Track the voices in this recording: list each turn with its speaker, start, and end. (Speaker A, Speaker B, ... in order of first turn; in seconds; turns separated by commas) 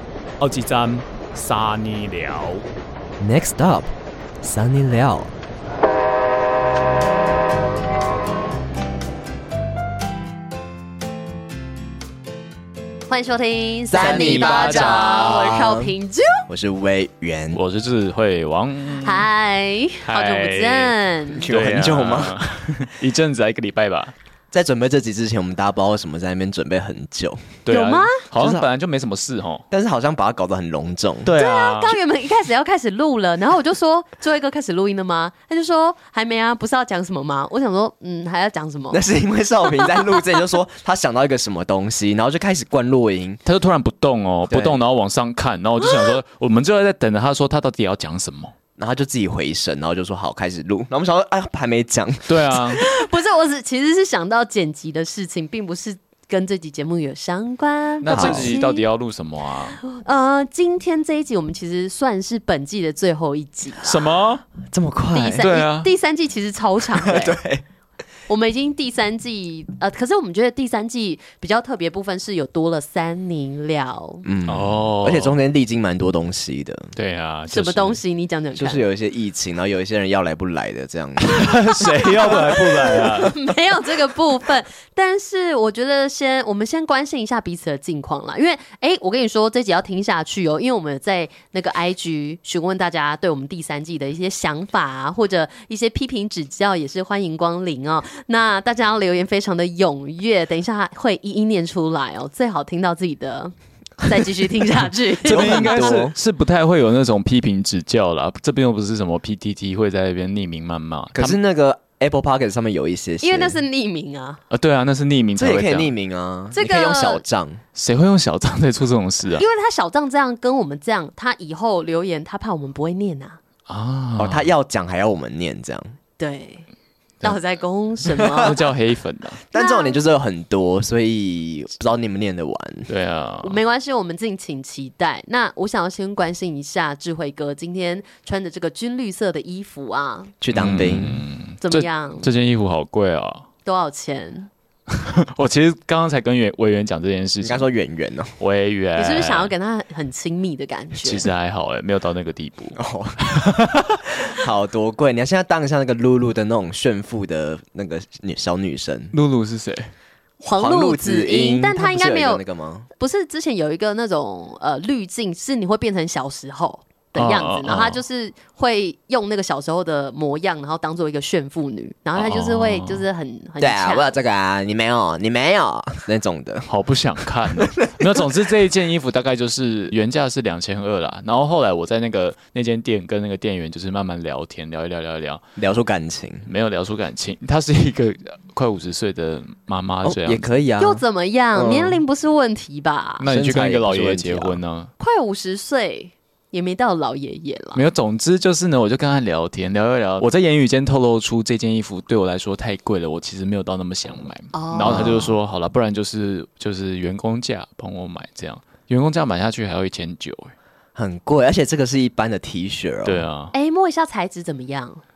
Speaker A: 0.4-2.6, Speaker B: 3.2-5.3, Speaker C: 13.1-16.4, Speaker B: 13.9-15.9, Speaker A: 13.9-15.6, Speaker B: 16.5-17.6, Speaker A: 17.5-19.3, Speaker C: 19.0-21.4, Speaker A: 20.0-20.9, Speaker B: 21.3-22.4, Speaker A: 21.4-24.1, Speaker B: 24.5-27.6, Speaker A: 27.6-29.6, Speaker C: 27.7-28.2, Speaker B: 28.4-28.7, Speaker B: 29.7-31.3, Speaker A: 31.2-32.0, Speaker C: 31.3-39.0, Speaker B: 38.9-43.4, Speaker A: 43.4-48.5, Speaker B: 44.5-44.8, Speaker C: 45.8-46.1, Speaker B: 48.8-52.9, Speaker A: 52.3-52.8, Speaker C: 52.7-58.8, Speaker A: 58.0-59.8, Speaker B: 58.0-58.5, Speaker C: 59.8-64.1, Speaker A: 63.8-64.4, Speaker B: 64.7-65.5, Speaker C: 65.1-67.4, Speaker A: 65.4-65.9, Speaker B: 67.0-67.6, Speaker C: 68.3-74.2, Speaker B: 74.2-76.9, Speaker A: 74.5-75.4, Speaker A: 77.0-78.0, Speaker C: 77.5-78.9, Speaker B: 78.5-83.3, Speaker A: 81.2-83.3, Speaker C: 82.2-105.9, Speaker B: 105.2-106.1, Speaker A: 105.2-111.4, Speaker B: 111.1-113.6, Speaker C: 113.2-114.4, Speaker A: 114.5-115.9, Speaker B: 115.3-117.6, Speaker C: 116.5-117.2, Speaker A: 117.7-119.4, Speaker C: 119.3-123.4, Speaker A: 123.7-124.5, Speaker B: 124.2-125.9, Speaker C: 126.2-126.7, Speaker C: 127.2-128.5, Speaker B: 128.0-128.6, Speaker A: 128.4-129.4, Speaker B: 129.5-132.9, Speaker C: 129.5-130.0, Speaker A: 132.9-133.6, Speaker C: 133.4-140.3, Speaker B: 140.4-141.2, Speaker A: 140.5-143.5, Speaker C: 141.6-142.3, Speaker C: 143.6-144.5, Speaker A: 144.9-147.7, Speaker B: 147.4-148.3, Speaker A: 148.4-149.5, Speaker C: 148.9-151.3, Speaker A: 151.0-154.0, Speaker B: 152.7-159.1, Speaker A: 159.1-159.9, Speaker C: 160.4-162.4, Speaker B: 160.6-162.9, Speaker C: 163.0-174.1, Speaker A: 167.2-168.0, Speaker A: 172.1-173.0, Speaker B: 173.6-176.7, Speaker A: 176.7-185.4, Speaker B: 177.6-178.4, Speaker B: 185.6-186.5, Speaker A: 186.4-190.4, Speaker B: 190.0-191.0, Speaker C: 190.8-193.2, Speaker B: 191.5-192.0, Speaker A: 193.2-194.9, Speaker B: 193.2-194.6, Speaker C: 195.0-197.8, Speaker A: 197.7-210.5, Speaker C: 204.5-205.3, Speaker B: 204.8-205.3, Speaker B: 210.9-213.2, Speaker A: 213.0-213.5, Speaker C: 213.5-215.0